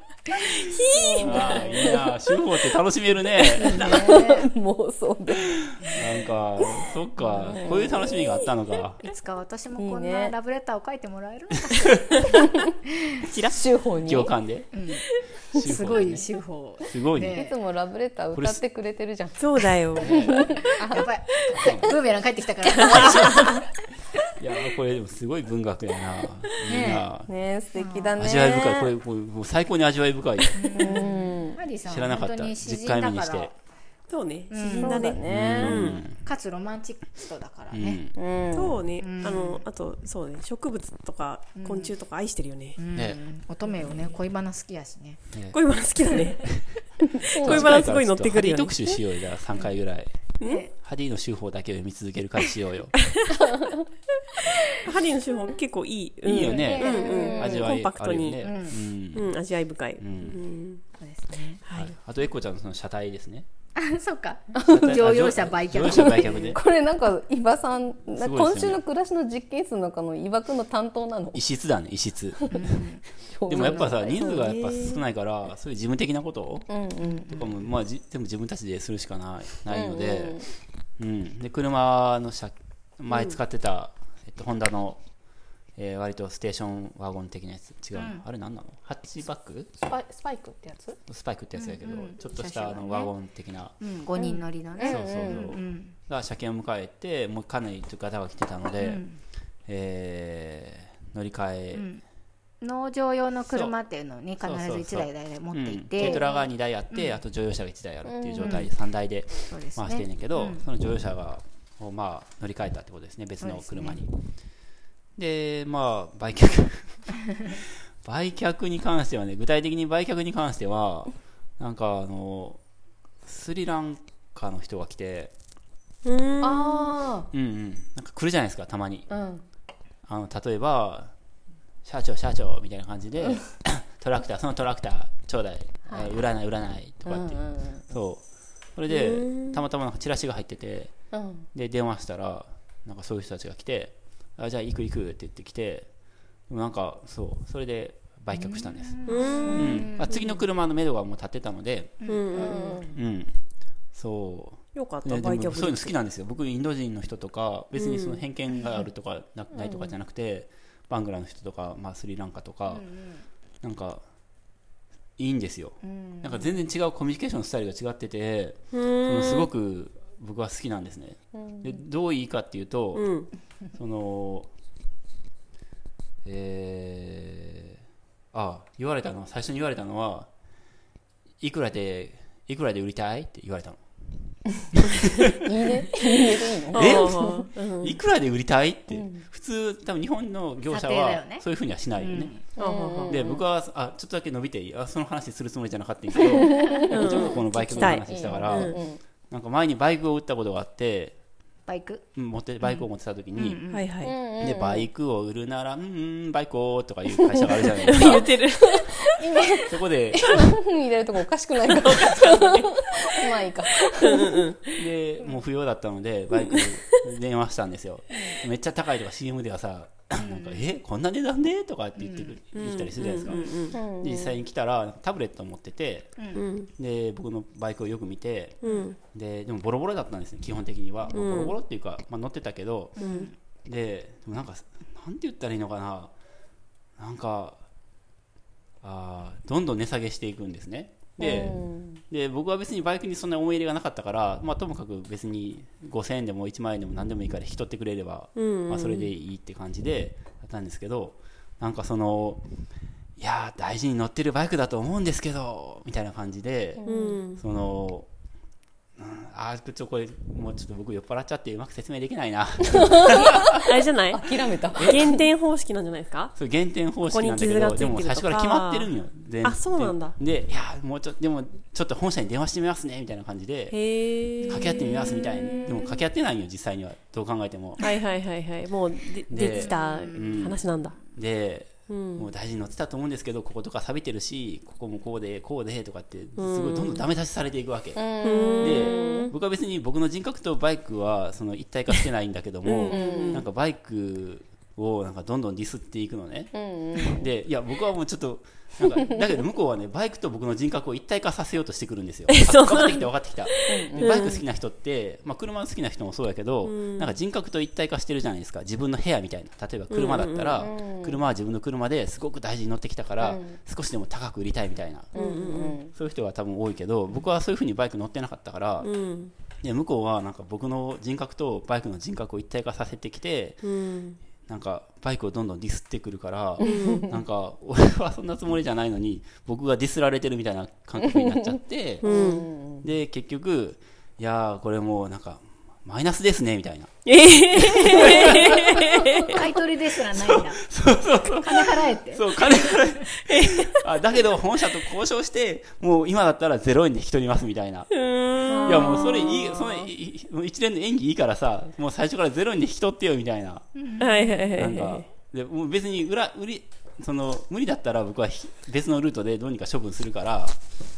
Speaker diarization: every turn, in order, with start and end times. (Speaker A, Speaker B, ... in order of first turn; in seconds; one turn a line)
Speaker A: 0.5-1.6
Speaker B: 0.9-2.2
Speaker C: 1.2-4.1
Speaker B: 3.4-5.7
Speaker D: 3.6-4.5
Speaker D: 5.8-6.1
Speaker C: 5.9-9.0
Speaker B: 7.3-8.2
Speaker D: 9.0-13.2
Speaker B: 9.8-10.3
Speaker A: 13.3-13.6
Speaker B: 13.5-14.3
Speaker C: 14.0-14.7
Speaker D: 14.7-17.6
Speaker C: 15.5-16.2
Speaker C: 16.9-17.4
Speaker B: 17.3-19.4
Speaker C: 18.3-18.6
Speaker A: 19.4-20.2
Speaker B: 20.0-21.1
Speaker C: 20.0-20.6
Speaker D: 20.1-23.7
Speaker C: 21.6-22.0
Speaker C: 22.8-23.6
Speaker A: 23.0-23.5
Speaker C: 24.4-27.3
Speaker D: 26.7-27.1
Speaker B: 27.3-28.9
Speaker D: 27.8-28.2
Speaker C: 28.2-31.0
Speaker D: 30.6-33.5
Speaker B: 30.8-31.6
Speaker C: 31.9-33.5
Speaker A: 34.1-36.0
Speaker D: 34.5-35.1
Speaker B: 34.7-35.8
Speaker C: 35.3-36.2
Speaker D: 36.2-38.0
Speaker C: 37.7-38.2
Speaker B: 38.1-38.8
Speaker A: 38.5-42.8
Speaker D: 39.0-39.6
Speaker D: 41.6-41.9
Speaker D: 42.8-45.2
Speaker C: 43.0-43.2
Speaker C: 45.3-45.6
Speaker A: 45.5-46.6
Speaker B: 47.1-47.7
Speaker A: 47.3-48.9
Speaker C: 47.4-53.0
Speaker A: 50.4-50.7
Speaker D: 50.4-50.7
Speaker A: 54.8-58.5
Speaker C: 56.2-59.4
Speaker B: 56.5-57.7
Speaker D: 58.4-58.8
Speaker A: 59.1-60.8
Speaker C: 60.0-60.4
Speaker D: 61.0-61.6
Speaker A: 61.6-61.9
Speaker C: 61.7-63.5
Speaker D: 63.8-66.6
Speaker B: 64.5-65.0
Speaker C: 64.7-66.6
Speaker B: 65.8-71.4
Speaker C: 68.1-68.8
Speaker C: 71.3-72.8
Speaker D: 72.5-73.0
Speaker B: 73.3-74.3
Speaker C: 73.5-76.7
Speaker D: 73.5-74.0
Speaker A: 74.2-75.0
Speaker B: 76.7-77.3
Speaker D: 77.0-77.4
Speaker C: 77.3-80.5
Speaker B: 79.7-80.5
Speaker C: 81.0-85.0
Speaker A: 83.1-83.4
Speaker C: 85.8-89.7
Speaker D: 88.0-88.2
Speaker B: 89.8-91.0
Speaker C: 91.1-93.8
Speaker D: 91.6-93.1
Speaker D: 93.8-96.0
Speaker B: 94.2-95.5
Speaker C: 94.8-99.0
Speaker D: 98.7-99.2
Speaker C: 99.7-101.9
Speaker D: 101.7-102.0
Speaker D: 102.6-106.3
Speaker C: 103.5-103.8
Speaker C: 104.4-114.2
Speaker B: 106.0-106.4
Speaker D: 106.9-107.2
Speaker B: 108.0-108.7
Speaker D: 109.5-110.7
Speaker D: 113.4-114.0
Speaker C: 115.2-122.6
Speaker C: 123.2-125.3
Speaker A: 126.0-126.9
Speaker B: 126.4-127.3
Speaker C: 127.3-129.1
Speaker B: 129.1-129.4
Speaker C: 130.1-131.1
Speaker C: 131.8-141.0
Speaker B: 137.1-137.8
Speaker A: 138.9-139.6
Speaker B: 141.1-141.5
Speaker C: 141.5-145.9
Speaker C: 146.5-149.0
Speaker D: 148.3-150.1
Speaker A: 149.1-149.9
Speaker B: 149.5-150.3
Speaker C: 149.6-152.1
Speaker D: 152.0-152.6
Speaker A: 152.1-152.8
Speaker B: 152.3-153.0
Speaker C: 152.9-153.4
Speaker C: 153.9-162.9
Speaker A: 154.8-156.0
Speaker A: 157.8-158.2
Speaker B: 159.5-159.9
Speaker D: 162.7-163.3
Speaker C: 163.6-164.0
Speaker C: 165.2-173.1
Speaker D: 165.8-166.6
Speaker A: 168.7-169.5
Speaker B: 171.3-171.8
Speaker A: 172.9-173.3
Speaker C: 173.8-174.5
Speaker C: 176.2-177.7
Speaker C: 178.3-180.3
Speaker C: 181.4-183.8
Speaker C: 184.7-185.4
Speaker B: 185.4-187.5
Speaker A: 186.7-188.0
Speaker C: 186.7-192.3
Speaker B: 188.9-189.2
Speaker D: 190.7-191.4
Speaker D: 192.0-192.4
Speaker A: 192.6-193.2
Speaker B: 192.6-193.4
Speaker C: 193.1-201.2
Speaker B: 196.2-199.0
Speaker D: 196.4-197.1
Speaker A: 196.9-198.8
Speaker D: 201.7-202.0
Speaker C: 202.2-203.6
Speaker D: 202.6-203.9
Speaker A: 203.7-204.1
Speaker B: 204.0-204.9
Speaker C: 204.4-208.4
Speaker B: 207.2-208.1
Speaker A: 207.9-209.0
Speaker B: 208.8-214.4
Speaker C: 209.6-210.6
Speaker A: 211.7-212.7
Speaker A: 214.0-214.8
Speaker C: 214.8-233.0
Speaker A: 216.4-217.0
Speaker D: 220.2-220.6
Speaker D: 222.0-222.3
Speaker A: 222.6-223.8
Speaker B: 223.7-224.4
Speaker D: 226.2-226.4
Speaker A: 226.4-226.7
Speaker A: 228.6-229.0
Speaker A: 231.1-231.6
Speaker D: 233.0-233.3
Speaker A: 233.0-233.3
Speaker C: 233.6-236.1
Speaker C: 237.0-237.6
Speaker C: 238.8-252.4
Speaker B: 241.2-242.0
Speaker A: 248.4-249.1
Speaker C: 253.2-256.8
Speaker B: 256.8-257.2
Speaker A: 256.9-257.4
Speaker C: 257.4-258.1
Speaker C: 259.0-263.4
Speaker B: 262.7-265.3
Speaker A: 263.6-264.2
Speaker A: 264.8-266.4
Speaker C: 264.8-265.1
Speaker C: 266.4-273.8
Speaker A: 267.1-268.9
Speaker A: 269.4-270.2
Speaker A: 273.7-274.9
Speaker C: 274.5-277.8
Speaker A: 275.5-275.8
Speaker A: 277.8-281.0
Speaker C: 279.3-288.1
Speaker D: 279.5-280.4
Speaker A: 281.9-282.3
Speaker A: 286.4-287.1
Speaker B: 288.0-289.3
Speaker A: 288.2-289.3
Speaker C: 288.6-315.1
Speaker A: 292.7-293.5
Speaker B: 292.9-293.4
Speaker B: 296.5-297.2
Speaker A: 302.3-304.4
Speaker B: 303.7-304.2
Speaker A: 306.7-307.1
Speaker A: 309.9-310.6
Speaker B: 310.6-311.2
Speaker B: 313.2-313.6
Speaker A: 315.1-315.8
Speaker B: 315.1-315.9
Speaker C: 315.9-318.9
Speaker A: 318.8-319.3
Speaker C: 319.6-323.6
Speaker A: 323.6-324.2
Speaker C: 324.4-332.2
Speaker A: 326.6-327.1
Speaker B: 326.7-327.0
Speaker B: 331.0-332.9
Speaker A: 332.0-332.5
Speaker C: 332.8-336.9
Speaker A: 337.1-339.4
Speaker C: 337.6-338.4
Speaker D: 339.2-340.6
Speaker C: 340.1-347.9
Speaker D: 341.2-342.8
Speaker A: 343.3-343.9
Speaker A: 347.9-349.2
Speaker B: 348.5-349.9
Speaker C: 348.6-353.7
Speaker D: 353.8-354.3
Speaker A: 354.0-355.1
Speaker C: 354.6-360.6